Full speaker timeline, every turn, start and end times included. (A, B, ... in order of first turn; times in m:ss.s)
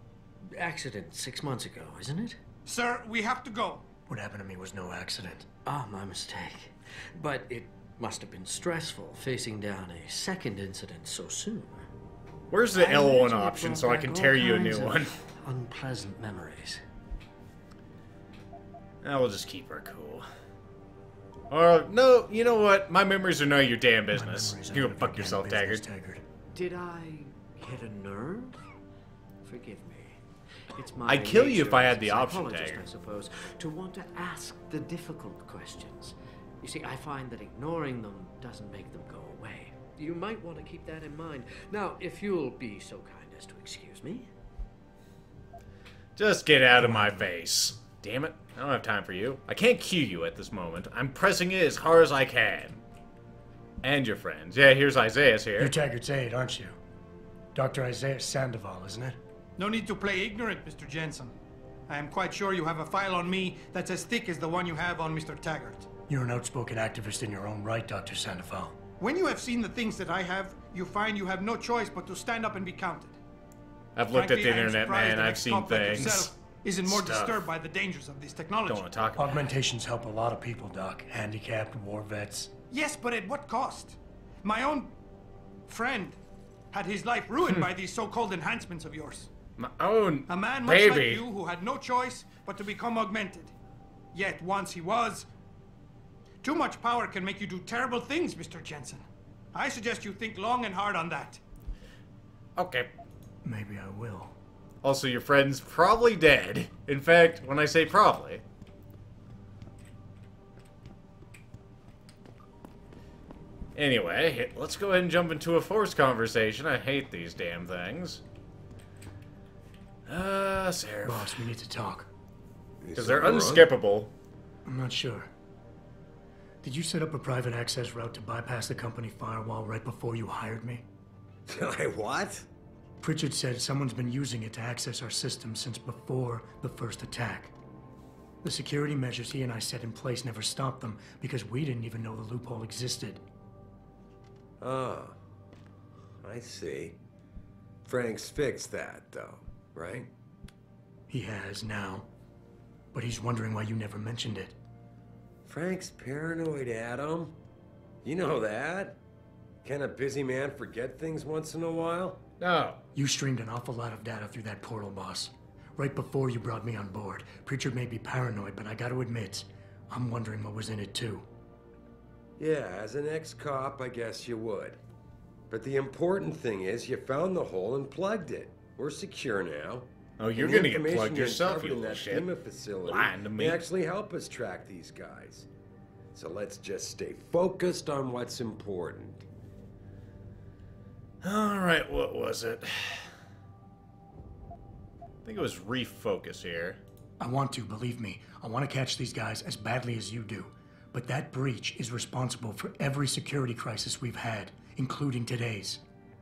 0:00.5-0:02.4 A
0:02.7-0:03.8 B
0:04.1-0:05.5 C
0:05.6-0:11.8 A
0:12.5-0:15.2 D
0:12.7-0:16.8 A
0:19.0-0:20.3 D
0:21.5-0:25.8 D
0:24.1-0:26.2 C
0:26.5-0:28.6 A
0:29.4-0:30.2 A
0:30.8-0:44.3 A
0:31.1-0:32.8 D
0:46.2-0:52.8 D
0:46.8-0:47.3 C
0:53.8-0:55.7 D
0:55.6-0:56.8 C
0:57.6-0:59.2 C
0:59.6-1:01.4 B
1:01.9-1:05.9 B
1:06.1-1:08.8 C
1:09.0-1:13.2 B
1:14.0-1:16.3 D
1:14.1-1:18.9 B
1:16.8-1:17.5 D
1:18.6-1:19.5 D
1:19.2-1:22.5 C
1:22.7-1:24.9 B
1:25.7-1:26.2 B
1:26.7-1:29.3 B
1:29.6-1:31.2 D
1:30.3-1:33.5 B
1:34.1-1:35.3 B
1:36.4-1:41.4 B
1:42.6-1:42.9 D
1:43.4-1:44.4 C
1:44.8-1:48.4 D
1:53.8-1:58.2 D
2:00.1-2:01.4 D
2:01.0-2:02.1 C
2:02.8-2:03.7 E
2:03.0-2:04.1 D
2:04.6-2:05.3 C
2:06.6-2:10.8 C
2:11.5-2:12.5 E
2:13.0-2:17.5 C
2:18.4-2:23.2 C
2:24.6-2:25.2 E
2:26.2-2:27.0 E
2:27.8-2:30.1 E
2:31.1-2:32.1 C
2:32.9-2:34.6 C
2:35.5-2:37.4 E
2:38.0-2:39.0 E
2:39.6-2:42.2 E
2:42.4-2:42.8 D
2:43.0-2:51.3 C
2:52.4-2:54.8 E
2:55.5-3:05.5 E
3:00.2-3:02.3 D
3:02.8-3:03.6 D
3:06.1-3:09.2 E
3:11.2-3:13.1 D
3:15.2-3:16.8 D
3:17.2-3:25.8 C